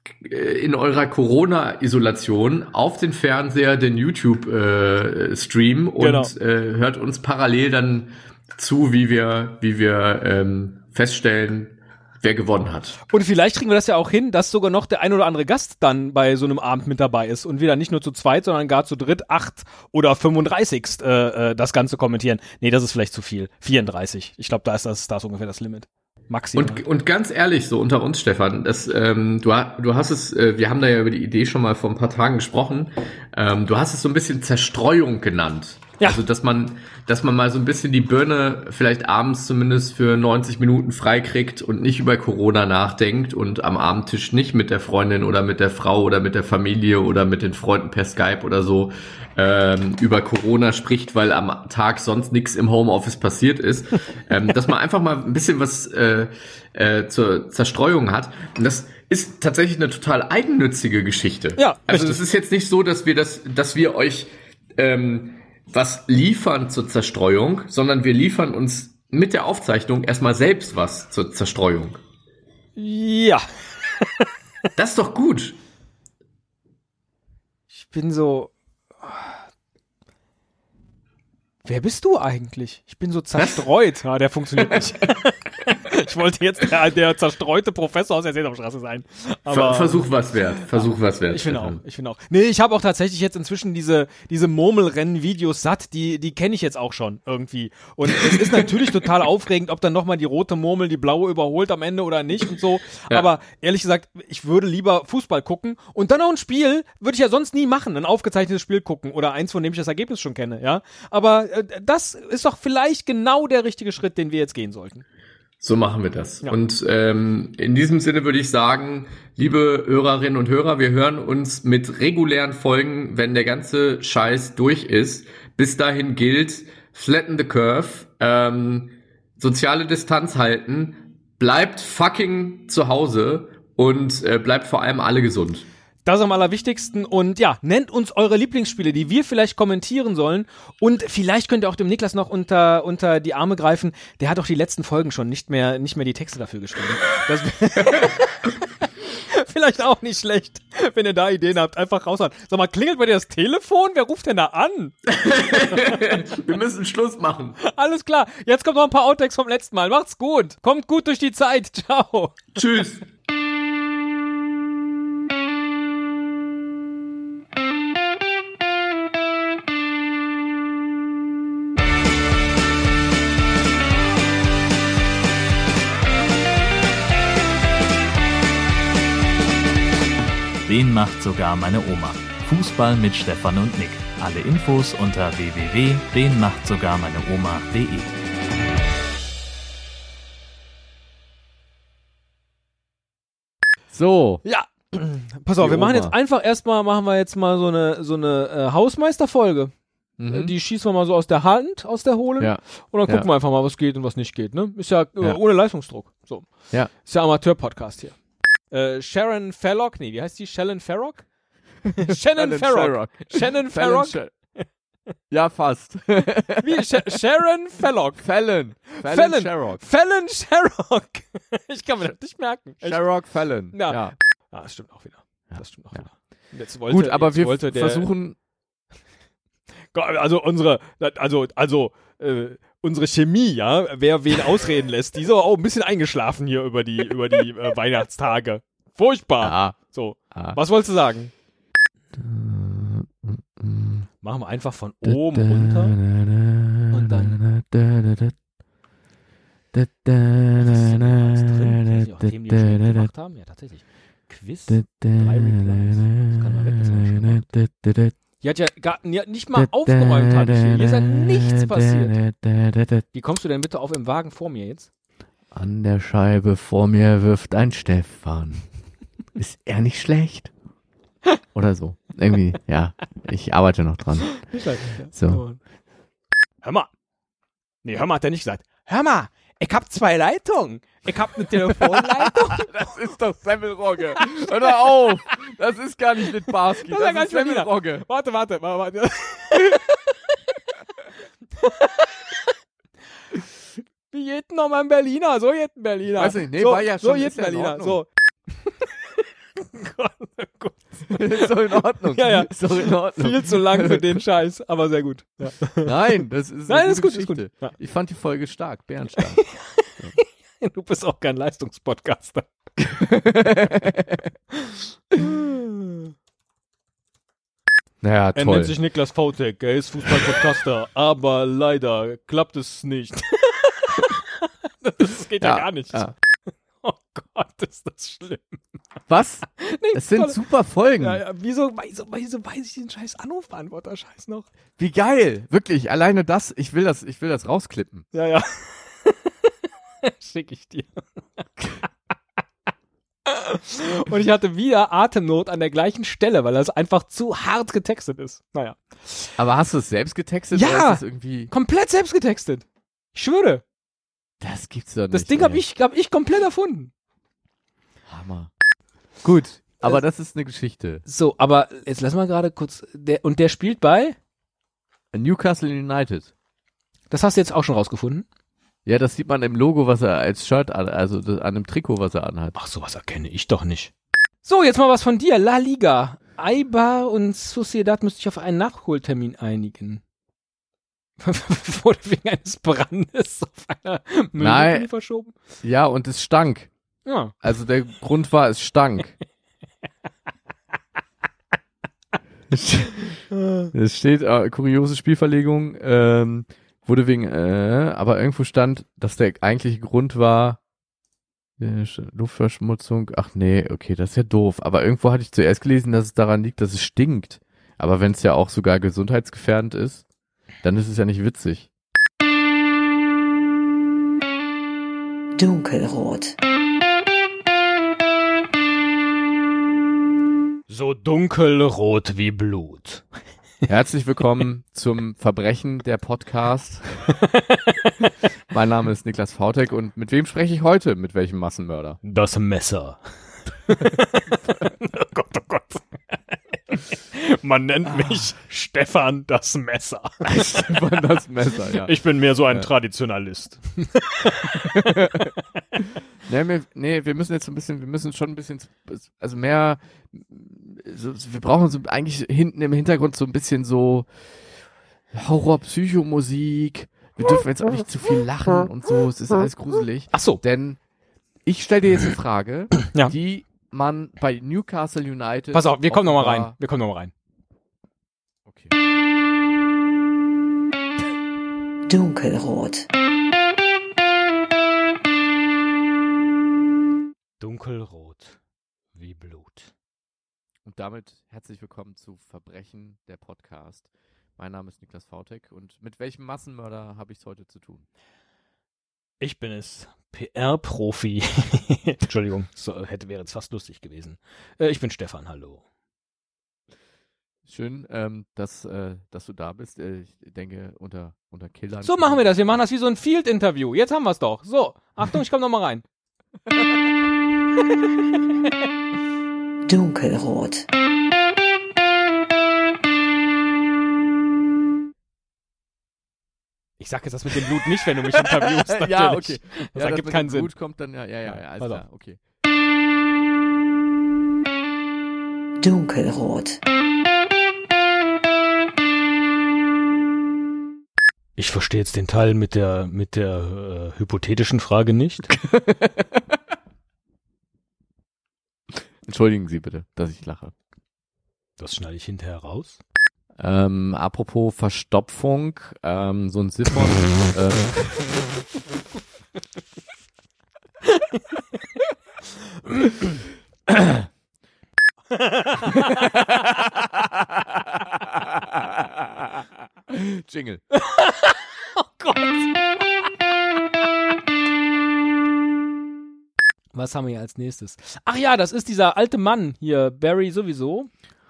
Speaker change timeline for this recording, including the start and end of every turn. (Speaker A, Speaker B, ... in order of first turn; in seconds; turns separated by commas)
Speaker A: 0.2-13.0, Speaker B: 6.0-6.3, Speaker B: 13.1-26.8, Speaker A: 26.6-72.0, Speaker B: 61.6-62.2, Speaker B: 72.8-73.4, Speaker A: 74.8-75.6, Speaker B: 77.7-78.5, Speaker B: 81.7-115.0, Speaker A: 83.4-83.7, Speaker A: 89.5-91.8, Speaker A: 115.6-135.7, Speaker B: 136.1-155.9, Speaker A: 155.2-157.6, Speaker B: 157.7-162.4, Speaker A: 162.6-163.1, Speaker C: 180.7-188.1, Speaker D: 193.9-194.4, Speaker B: 194.4-211.3, Speaker D: 195.6-196.2, Speaker D: 200.2-200.5, Speaker D: 202.4-203.3, Speaker B: 211.9-214.7, Speaker D: 212.0-214.6, Speaker D: 215.3-217.0, Speaker B: 216.6-223.1, Speaker D: 218.2-219.8, Speaker D: 222.8-224.2, Speaker B: 223.7-228.1, Speaker D: 225.5-226.1, Speaker D: 226.9-228.4, Speaker B: 229.9-241.3, Speaker D: 239.4-239.8, Speaker D: 240.3-240.6, Speaker D: 242.2-244.1, Speaker B: 244.2-246.0, Speaker D: 245.0-248.4, Speaker B: 246.9-247.4, Speaker D: 249.7-253.1, Speaker B: 250.6-257.5, Speaker D: 254.7-258.1, Speaker B: 258.4-262.2, Speaker D: 259.6-263.1, Speaker B: 263.1-264.9, Speaker D: 265.5-268.7, Speaker D: 269.4-270.5, Speaker D: 271.5-274.5, Speaker B: 274.5-275.6, Speaker D: 275.1-275.4, Speaker B: 276.6-276.9, Speaker B: 277.8-282.7, Speaker D: 281.8-288.1, Speaker B: 286.8-290.1, Speaker B: 291.6-292.4, Speaker B: 294.1-298.1, Speaker D: 296.1-298.0, Speaker B: 298.6-298.9, Speaker B: 299.6-301.6, Speaker D: 301.1-304.2, Speaker B: 302.1-305.9, Speaker D: 305.7-309.5, Speaker B: 306.7-307.7, Speaker B: 309.6-312.5, Speaker D: 312.8-314.3, Speaker B: 314.6-316.1, Speaker D: 318.0-318.8, Speaker B: 318.4-326.1, Speaker D: 325.4-326.1, Speaker B: 326.8-328.6, Speaker D: 329.1-331.2, Speaker B: 329.6-330.4, Speaker B: 331.0-334.5, Speaker D: 334.8-338.1, Speaker B: 338.1-339.3, Speaker B: 340.0-341.7, Speaker B: 343.3-349.3, Speaker D: 349.4-351.5, Speaker B: 350.5-353.6, Speaker D: 354.4-355.6, Speaker B: 355.1-356.9, Speaker D: 358.1-358.5, Speaker D: 359.2-361.1, Speaker B: 361.1-364.2, Speaker D: 365.1-366.3, Speaker B: 367.1-368.2, Speaker D: 368.9-372.6, Speaker B: 372.6-373.9, Speaker B: 374.4-380.0, Speaker B: 381.2-385.4, Speaker D: 384.4-384.9, Speaker D: 385.6-386.7, Speaker B: 387.1-387.3, Speaker D: 387.4-389.2, Speaker D: 392.5-393.2, Speaker B: 393.3-393.7, Speaker D: 393.7-400.6, Speaker D: 401.6-410.0, Speaker D: 410.6-411.7, Speaker E: 415.4-416.4, Speaker B: 420.7-423.0, Speaker D: 423.7-427.0, Speaker B: 427.3-427.9, Speaker D: 428.5-432.0, Speaker B: 432.0-433.0, Speaker B: 433.7-436.2, Speaker B: 436.7-440.3, Speaker D: 440.2-442.7, Speaker B: 441.8-445.0, Speaker D: 444.7-445.3, Speaker D: 446.3-454.1, Speaker D: 455.1-460.8, Speaker B: 460.1-460.4, Speaker D: 461.4-466.6, Speaker B: 465.5-467.1, Speaker D: 468.5-468.7, Speaker E: 471.9-472.9, Speaker B: 477.4-478.4, Speaker B: 478.9-479.7, Speaker D: 480.7-487.9, Speaker B: 489.2-495.6, Speaker D: 497.5-502.6, Speaker B: 501.8-505.8, Speaker E: 509.7-510.7, Speaker B: 516.8-520.5, Speaker D: 518.1-522.2, Speaker B: 521.2-521.8, Speaker E: 525.6-526.6, Speaker B: 531.4-535.3, Speaker D: 535.4-536.3, Speaker D: 539.0-540.5, Speaker B: 541.6-542.8, Speaker D: 543.4-547.8, Speaker B: 555.1-556.1, Speaker D: 555.8-560.6, Speaker B: 560.8-562.5, Speaker B: 566.7-570.9